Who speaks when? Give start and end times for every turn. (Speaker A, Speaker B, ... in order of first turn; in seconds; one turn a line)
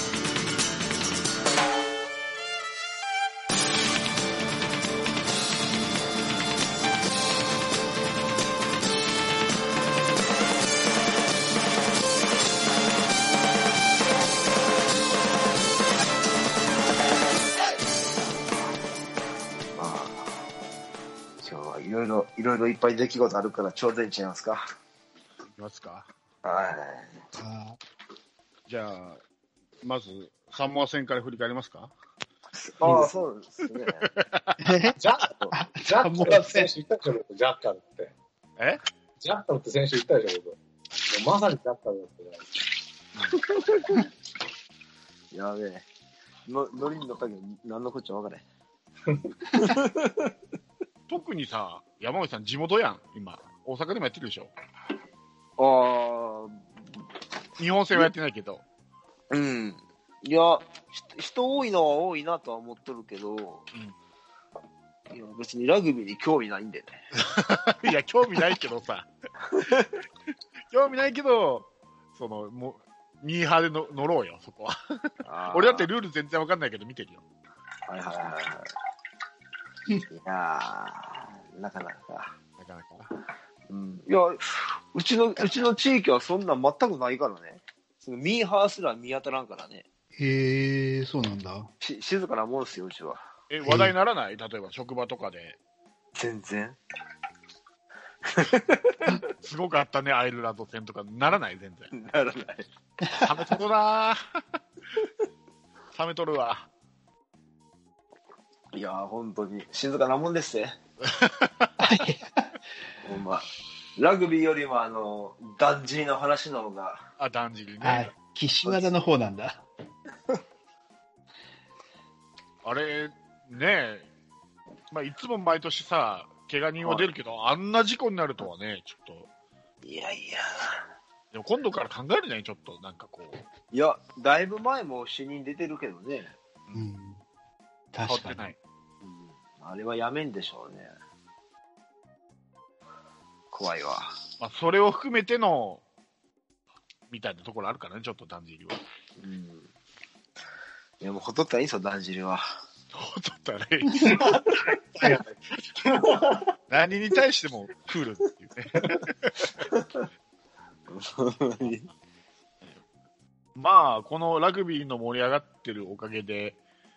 Speaker A: 19.7-20.4
Speaker A: 21.4-24.6
Speaker B: 25.6-26.1
Speaker A: 26.4-27.2
Speaker C: 27.4-27.8
Speaker B: 28.7-29.2
Speaker B: 29.8-31.9
Speaker A: 32.5-34.1
Speaker D: 32.8-33.2
Speaker B: 34.0-34.6
Speaker C: 34.6-35.0
Speaker D: 35.0-38.1
Speaker C: 35.5-36.7
Speaker D: 39.2-42.5
Speaker B: 43.1-43.4
Speaker A: 43.3-44.0
Speaker A: 45.3-45.9
Speaker A: 46.5-48.4
Speaker A: 49.5-50.3
Speaker B: 51.1-54.5
Speaker A: 55.6-56.8
Speaker B: 57.6-58.6
Speaker A: 59.3-63.7
Speaker A: 65.1-67.0
Speaker B: 67.2-69.1
Speaker A: 69.5-70.0
Speaker B: 70.7-77.2
Speaker A: 75.2-75.9
Speaker A: 77.9-78.7
Speaker A: 80.1-82.3
Speaker B: 82.6-83.1
Speaker A: 83.7-89.8
Speaker C: 90.2-91.7
Speaker A: 91.8-93.2
Speaker B: 93.5-95.6
Speaker C: 93.6-93.9
Speaker A: 96.1-96.8
Speaker A: 98.2-99.2
Speaker B: 99.4-101.9
Speaker A: 101.9-102.7
Speaker B: 103.2-104.4
Speaker B: 105.9-106.7
Speaker A: 108.7-110.7
Speaker B: 111.0-111.7
Speaker C: 111.8-112.5
Speaker A: 113.0-113.5
Speaker A: 114.0-117.0
Speaker B: 117.2-118.1
Speaker C: 117.8-119.6
Speaker B: 122.6-124.0
Speaker B: 124.9-129.3
Speaker A: 126.8-127.1
Speaker A: 129.8-130.8
Speaker B: 131.3-133.4
Speaker A: 133.7-136.3
Speaker C: 136.7-137.2
Speaker C: 137.9-138.5
Speaker B: 138.0-138.6
Speaker A: 139.0-140.9
Speaker A: 143.5-144.1
Speaker B: 144.4-145.8
Speaker B: 147.1-148.8
Speaker A: 149.2-149.7
Speaker A: 151.0-152.5
Speaker B: 152.9-155.2
Speaker D: 154.0-156.5
Speaker B: 156.7-159.7
Speaker A: 159.6-160.0
Speaker A: 160.9-161.9
Speaker B: 163.6-166.6